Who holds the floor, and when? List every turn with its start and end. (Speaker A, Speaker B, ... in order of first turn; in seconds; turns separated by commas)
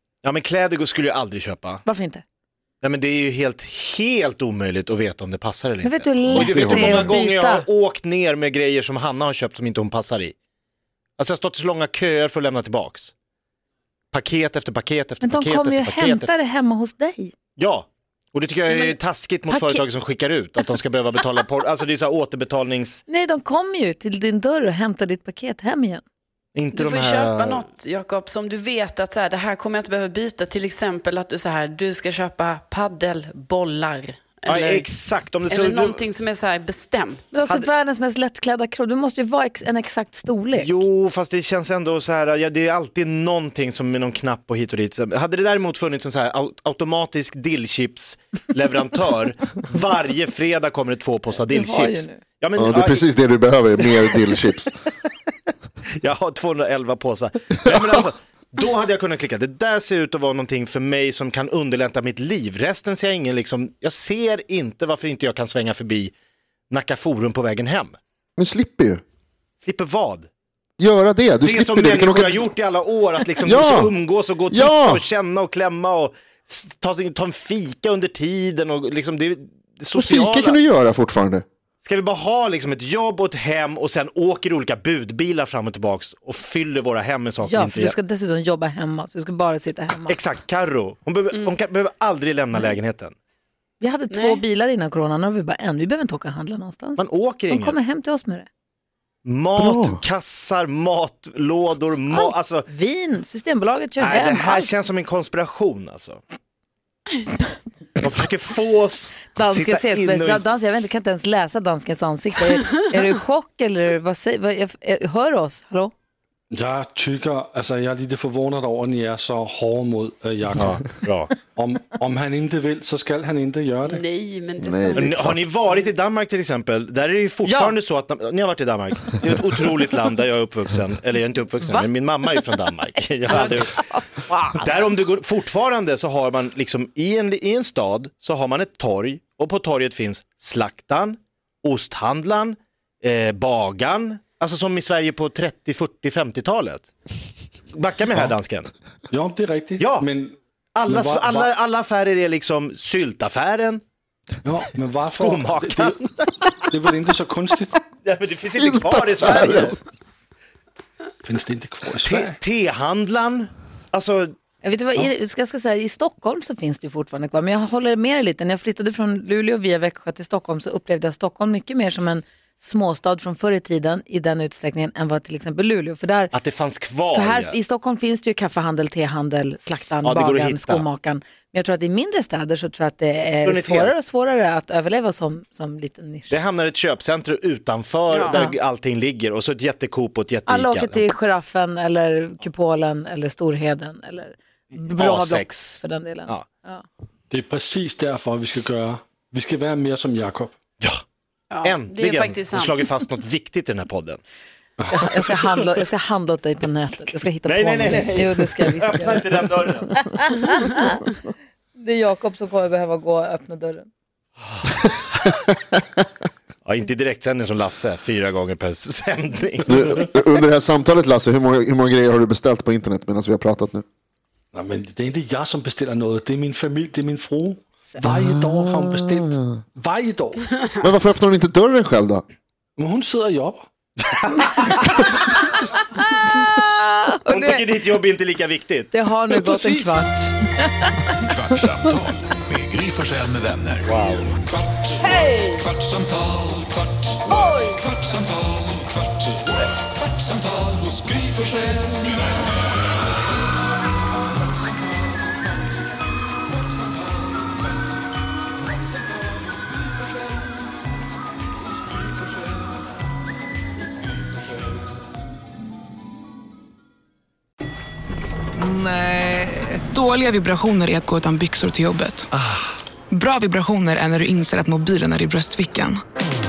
Speaker A: 0.2-1.8, Speaker B: 1.9-2.2, Speaker A: 2.8-10.3, Speaker B: 5.8-7.7, Speaker C: 6.3-7.1, Speaker A: 11.2-13.1, Speaker A: 14.1-16.3, Speaker B: 15.2-17.3, Speaker A: 17.6-23.0, Speaker B: 18.7-19.0, Speaker B: 19.5-19.9, Speaker B: 23.1-26.0, Speaker A: 26.6-27.6, Speaker D: 26.7-37.3, Speaker A: 34.5-36.1, Speaker B: 37.3-40.8, Speaker A: 40.5-53.2, Speaker B: 51.5-52.2, Speaker C: 52.6-54.7, Speaker A: 53.8-54.2, Speaker A: 56.0-66.1, Speaker C: 57.6-58.1, Speaker A: 66.7-68.0, Speaker C: 68.4-69.0, Speaker A: 69.6-70.3, Speaker C: 70.8-72.5, Speaker A: 71.4-80.6, Speaker C: 73.4-73.9, Speaker C: 74.5-75.0, Speaker C: 80.0-81.5, Speaker A: 81.8-88.0, Speaker B: 87.4-90.2, Speaker A: 90.1-93.2, Speaker D: 91.3-91.6, Speaker B: 93.8-98.5, Speaker D: 94.1-94.4, Speaker A: 97.0-97.8, Speaker A: 99.2-102.7, Speaker C: 99.6-100.0, Speaker B: 102.1-104.7, Speaker A: 104.0-106.2, Speaker A: 108.0-110.5, Speaker B: 109.4-115.9, Speaker E: 116.5-124.0, Speaker A: 120.6-121.3, Speaker D: 123.8-125.8, Speaker C: 124.6-125.4, Speaker A: 125.0-133.7, Speaker B: 127.4-127.8, Speaker B: 133.3-134.7, Speaker D: 133.3-133.6, Speaker A: 134.6-146.9, Speaker A: 147.7-148.7, Speaker E: 149.1-151.5, Speaker A: 149.8-150.1, Speaker A: 150.8-153.8, Speaker E: 154.4-156.0, Speaker A: 155.2-156.1, Speaker E: 156.6-157.8, Speaker A: 158.0-159.8, Speaker C: 158.5-159.8, Speaker E: 161.2-162.4, Speaker A: 162.0-164.3, Speaker B: 164.6-176.3, Speaker A: 176.3-177.6, Speaker B: 177.1-186.3, Speaker A: 180.0-180.9, Speaker A: 183.4-183.9, Speaker A: 186.3-191.1, Speaker D: 188.1-188.4, Speaker B: 188.3-188.5, Speaker B: 190.5-196.8, Speaker A: 194.8-196.4, Speaker E: 197.3-200.5, Speaker D: 201.5-203.0, Speaker A: 201.6-204.2, Speaker B: 204.9-211.1, Speaker A: 207.4-210.0, Speaker B: 211.8-213.9, Speaker A: 216.7-220.0, Speaker C: 219.7-223.8, Speaker E: 224.5-230.5, Speaker C: 228.0-229.3, Speaker C: 230.8-232.2, Speaker E: 232.8-233.7, Speaker A: 234.1-235.0, Speaker B: 235.3-237.7, Speaker A: 237.3-238.9, Speaker B: 238.9-241.3, Speaker E: 239.4-240.0, Speaker F: 241.4-243.7, Speaker A: 243.8-244.3, Speaker B: 244.9-245.7, Speaker B: 247.3-247.8, Speaker E: 251.5-251.9, Speaker G: 268.6-272.3, Speaker G: 273.1-276.0